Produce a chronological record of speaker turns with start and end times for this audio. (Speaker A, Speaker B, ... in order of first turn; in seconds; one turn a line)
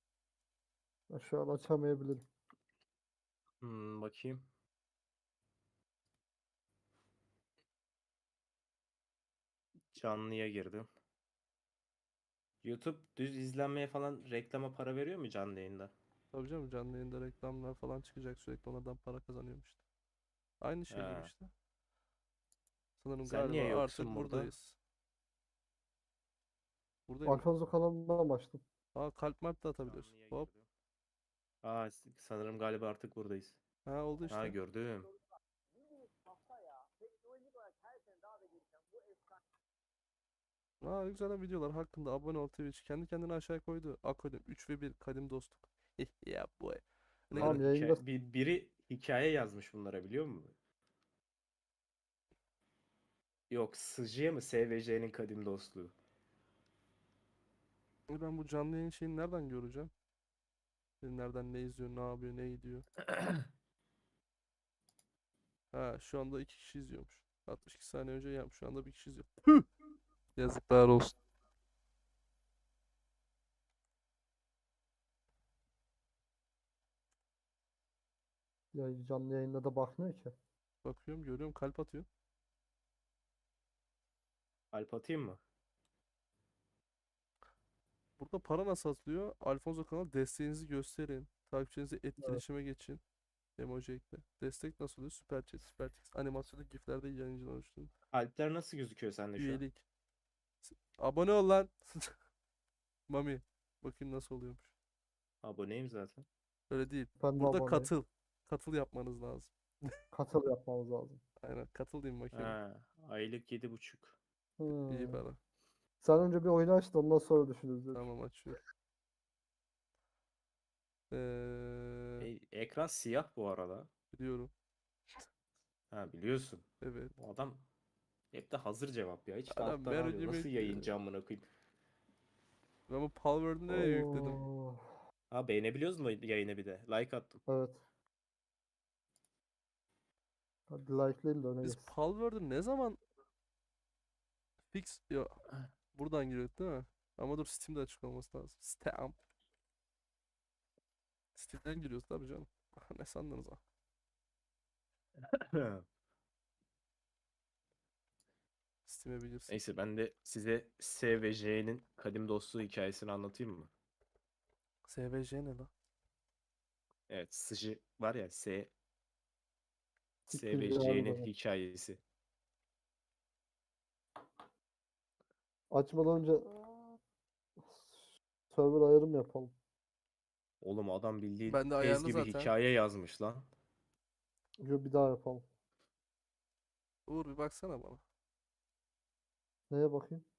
Speaker A: 1.1-2.2
Speaker B: 3.6-4.4
Speaker B: 9.9-10.9
Speaker B: 12.6-15.9
Speaker C: 16.3-19.8
Speaker C: 20.6-21.5
Speaker B: 20.9-21.3
Speaker C: 23.0-24.8
Speaker B: 23.2-24.5
Speaker C: 27.1-27.5
Speaker A: 27.2-28.6
Speaker C: 28.9-30.5
Speaker B: 29.8-30.7
Speaker B: 31.6-33.6
Speaker C: 33.9-34.6
Speaker B: 34.3-35.1
Speaker C: 40.8-47.6
Speaker B: 47.3-50.5
Speaker A: 47.4-48.0
Speaker B: 53.5-55.9
Speaker C: 58.1-59.9
Speaker C: 61.0-62.8
Speaker C: 65.7-69.6
Speaker C: 70.3-71.2
Speaker A: 78.7-80.3
Speaker C: 80.8-82.0
Speaker B: 84.7-85.4
Speaker C: 88.2-93.0
Speaker C: 93.6-97.9
Speaker B: 98.1-99.6
Speaker C: 99.4-99.8
Speaker C: 100.6-102.1
Speaker C: 103.1-104.7
Speaker B: 105.4-106.2
Speaker C: 106.7-109.9
Speaker A: 107.2-107.9
Speaker A: 110.1-111.2
Speaker C: 111.4-112.5
Speaker B: 112.3-114.2
Speaker A: 114.6-115.2
Speaker C: 114.9-115.4
Speaker A: 116.0-118.1
Speaker C: 117.9-118.6
Speaker C: 121.1-122.3
Speaker B: 122.2-123.9
Speaker C: 124.1-124.5
Speaker B: 125.9-127.6
Speaker C: 126.8-127.1
Speaker B: 128.3-131.5
Speaker C: 129.5-130.9
Speaker C: 132.9-134.4
Speaker A: 133.7-134.9
Speaker B: 135.3-137.4
Speaker A: 137.5-137.8
Speaker A: 140.7-141.9
Speaker C: 141.6-143.0
Speaker C: 144.7-145.3
Speaker C: 145.9-149.2
Speaker C: 151.3-153.6
Speaker B: 155.2-155.8
Speaker C: 158.8-159.6
Speaker B: 159.5-163.7
Speaker C: 164.8-165.7
Speaker B: 167.1-168.7
Speaker B: 170.3-172.0
Speaker A: 170.3-171.3
Speaker A: 175.7-177.0
Speaker A: 177.6-179.5
Speaker B: 180.6-183.5
Speaker C: 181.5-182.5
Speaker A: 184.6-185.4
Speaker C: 187.1-188.0
Speaker A: 189.7-190.2